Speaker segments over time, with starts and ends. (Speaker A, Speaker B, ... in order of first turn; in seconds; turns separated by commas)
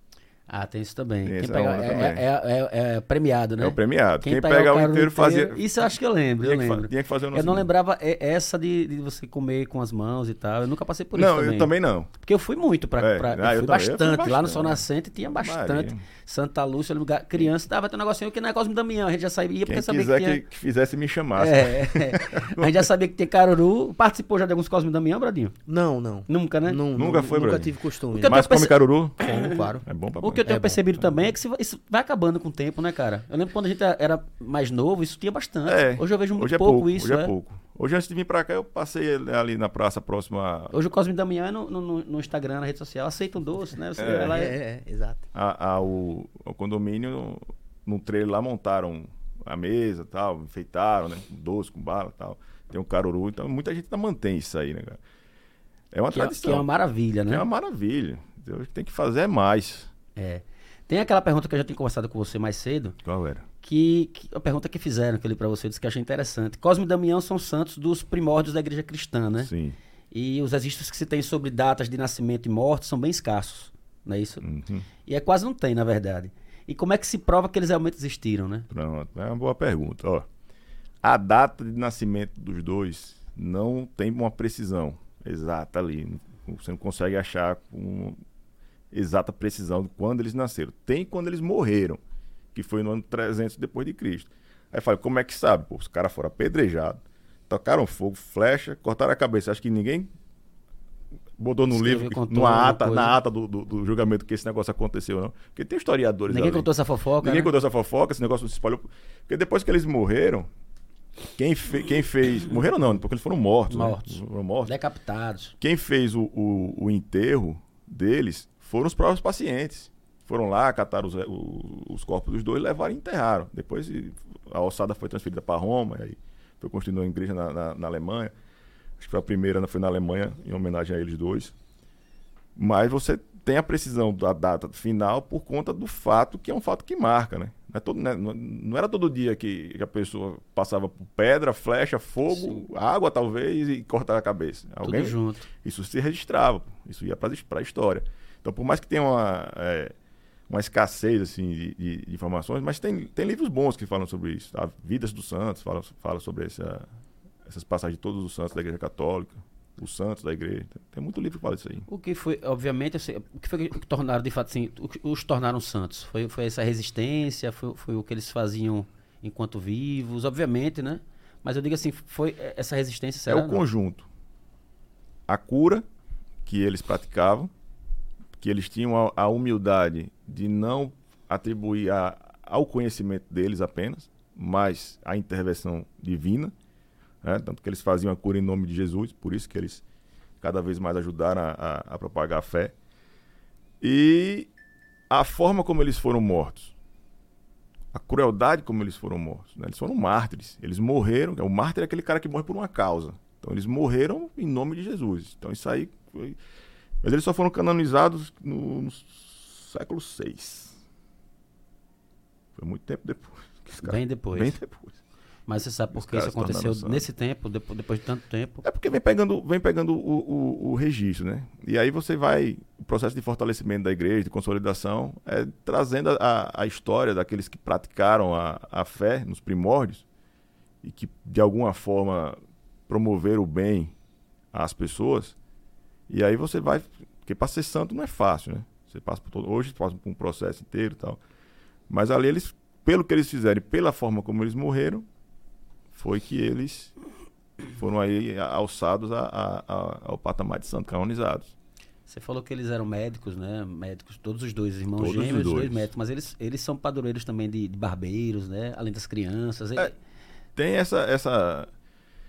Speaker A: 0.5-20.4, Speaker B: 1.2-2.2, Speaker B: 3.6-5.7, Speaker B: 6.4-7.7, Speaker B: 11.1-12.1, Speaker B: 13.0-16.0, Speaker B: 19.6-22.9, Speaker A: 21.4-25.5, Speaker C: 25.7-28.5, Speaker A: 26.3-26.8, Speaker B: 26.9-29.3, Speaker A: 28.1-29.6, Speaker C: 29.2-29.8, Speaker B: 29.8-31.1, Speaker A: 30.2-37.3, Speaker C: 30.4-30.8, Speaker B: 35.6-40.7, Speaker A: 40.7-44.6, Speaker B: 44.0-44.4, Speaker C: 44.0-45.2, Speaker B: 45.3-55.0, Speaker B: 55.9-56.7, Speaker A: 56.1-57.4, Speaker B: 57.3-59.9, Speaker A: 60.1-63.0, Speaker B: 63.0-63.5, Speaker A: 63.6-69.5, Speaker B: 69.4-69.8, Speaker A: 70.1-74.4, Speaker B: 74.4-74.8, Speaker A: 75.0-78.7, Speaker B: 78.7-80.2, Speaker B: 81.0-88.2, Speaker B: 88.9-92.0, Speaker B: 92.5-100.1, Speaker B: 101.4-106.7, Speaker A: 101.7-103.1, Speaker A: 106.3-107.5, Speaker B: 107.2-110.5, Speaker B: 111.3-114.7, Speaker A: 113.7-115.5, Speaker B: 115.6-128.3, Speaker B: 129.0-131.5, Speaker B: 132.6-149.9, Speaker A: 144.8-145.5, Speaker B: 150.5-156.8, Speaker B: 157.4-161.9, Speaker A: 161.9-173.6, Speaker B: 173.3-174.1, Speaker B: 175.3-175.8, Speaker B: 176.4-177.5, Speaker B: 178.4-186.5, Speaker B: 187.2-189.8, Speaker B: 190.4-192.7, Speaker B: 193.8-194.5, Speaker B: 195.1-196.7, Speaker B: 197.9-206.4, Speaker B: 207.0-210.8, Speaker B: 212.5-215.0, Speaker A: 213.8-214.6, Speaker A: 215.5-218.6, Speaker B: 215.9-217.0, Speaker B: 218.6-230.0, Speaker B: 230.8-232.4, Speaker B: 232.9-233.9, Speaker B: 234.5-235.3, Speaker B: 236.1-241.2, Speaker B: 241.9-245.0, Speaker B: 245.9-246.9, Speaker B: 247.7-251.5, Speaker A: 252.1-259.9, Speaker B: 255.0-255.9, Speaker B: 260.6-261.7